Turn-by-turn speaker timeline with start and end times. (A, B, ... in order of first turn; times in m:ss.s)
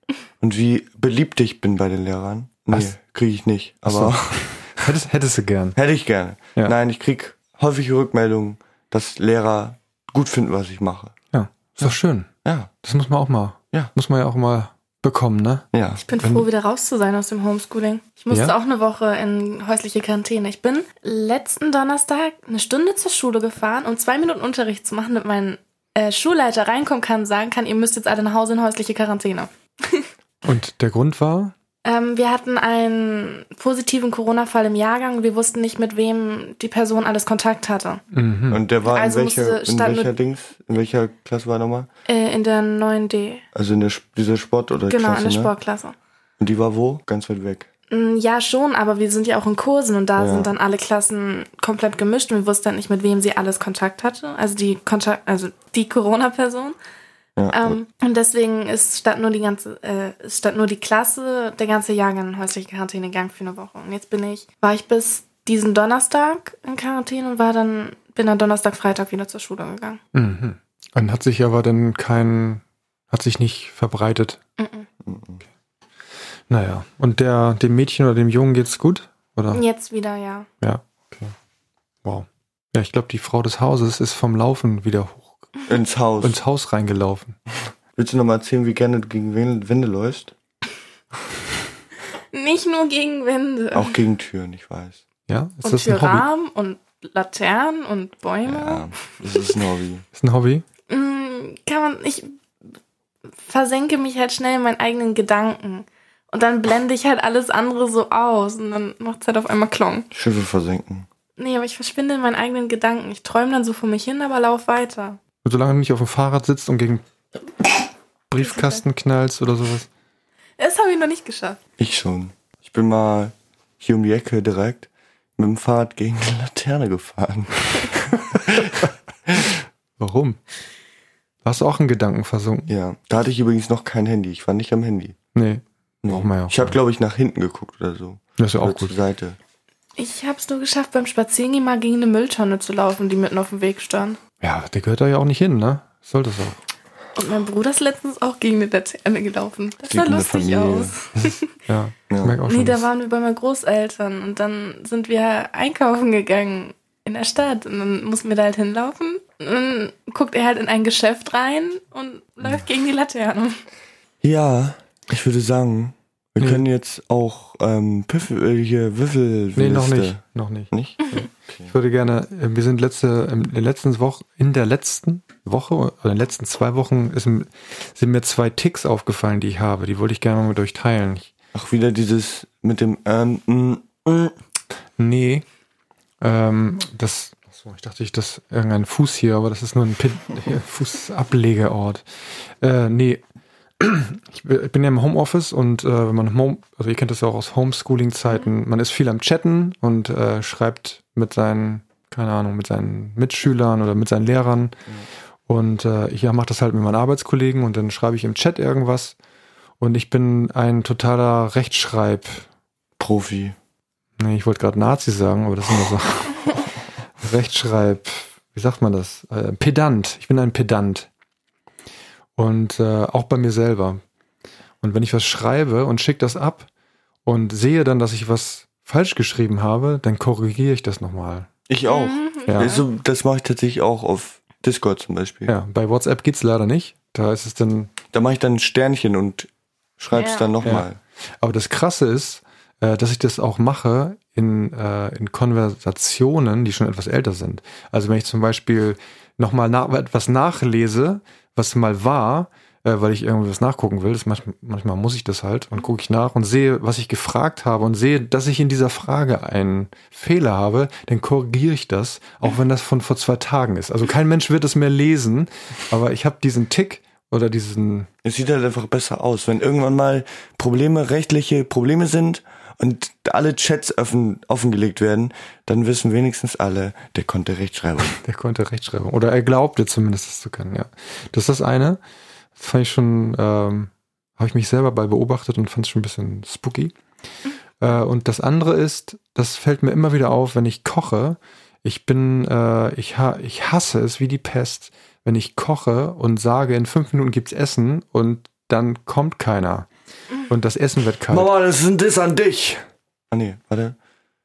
0:00.4-0:04.8 A
0:03.8-0:05.8 B
0:05.8-0:11.1 A
0:11.3-0:12.3 B
0:12.4-0:12.7 A
0:12.8-0:15.6 B
0:15.7-0:16.0 A
0:16.1-0:30.1 C
0:16.2-0:16.4 B
0:30.4-0:31.5 B
0:31.8-0:38.0 C
0:38.1-0:38.6 B
0:38.5-0:41.9 A
0:38.9-0:40.1 C
0:42.1-0:43.4 C
0:43.5-0:45.5 A
0:44.9-0:46.0 C
0:46.4-0:47.7 A
0:47.9-0:56.8 C
0:50.2-0:50.5 A
0:57.4-0:57.8 A
0:57.5-1:10.0 C
1:10.1-1:14.4 B
1:14.6-1:14.9 C
1:15.0-1:15.4 A
1:16.5-1:19.6 B
1:19.5-1:20.5 C
1:20.6-1:21.3 B
1:22.0-1:25.5 B
1:25.7-1:26.4 A
1:26.2-1:27.4 B
1:28.0-1:30.3 A
1:32.3-1:34.0 C
1:33.7-1:35.0 A
1:35.3-1:36.3 B
1:35.6-1:38.9 C
1:38.4-1:40.0 A
1:40.2-1:40.6 B
1:40.9-1:42.4 C
1:43.4-1:50.1 C
1:50.1-1:51.1 A
1:51.4-1:55.2 C
1:55.4-1:57.0 B
1:58.3-1:59.9 B
1:58.4-1:58.8 C
2:00.6-2:01.6 C
2:01.8-2:09.6 A
2:10.0-2:10.4 B
2:11.4-2:12.7 B
2:12.7-2:15.2 A
2:15.3-2:16.8 B
2:16.0-2:19.4 A
2:18.4-2:19.0 B
2:20.0-2:24.2 C
2:24.4-2:26.6 B
2:27.2-2:31.4 C
2:29.9-2:30.9 A
2:31.1-2:32.8 B
2:32.1-2:32.4 A
2:32.4-2:43.6 C
2:44.2-2:50.2 A
2:46.4-2:46.6 B
2:49.5-3:01.3 B
2:50.7-2:51.7 A
3:01.5-3:04.3 A
3:05.0-3:05.4 B
3:06.2-3:12.0 B
3:12.6-3:13.2 B
3:13.8-3:24.8 B
3:25.5-3:29.2 B
3:29.8-3:32.4 B
3:33.0-3:33.6 A
3:34.2-3:36.6 B
3:37.2-3:41.1 B
3:42.4-3:44.0 B
3:44.8-3:46.7 B
3:47.2-3:51.5 B
3:51.7-3:55.5 A
3:51.8-3:52.8 C
3:52.5-3:52.7 B
3:55.5-3:57.9 B
3:58.1-4:01.0 A
4:00.1-4:00.5 C
4:01.4-4:28.1 B
4:28.2-4:38.2 A
4:38.2-4:42.0 B
4:42.6-4:46.9 B
4:47.8-4:59.9 B
5:00.5-5:01.5 B
5:01.3-5:04.0 A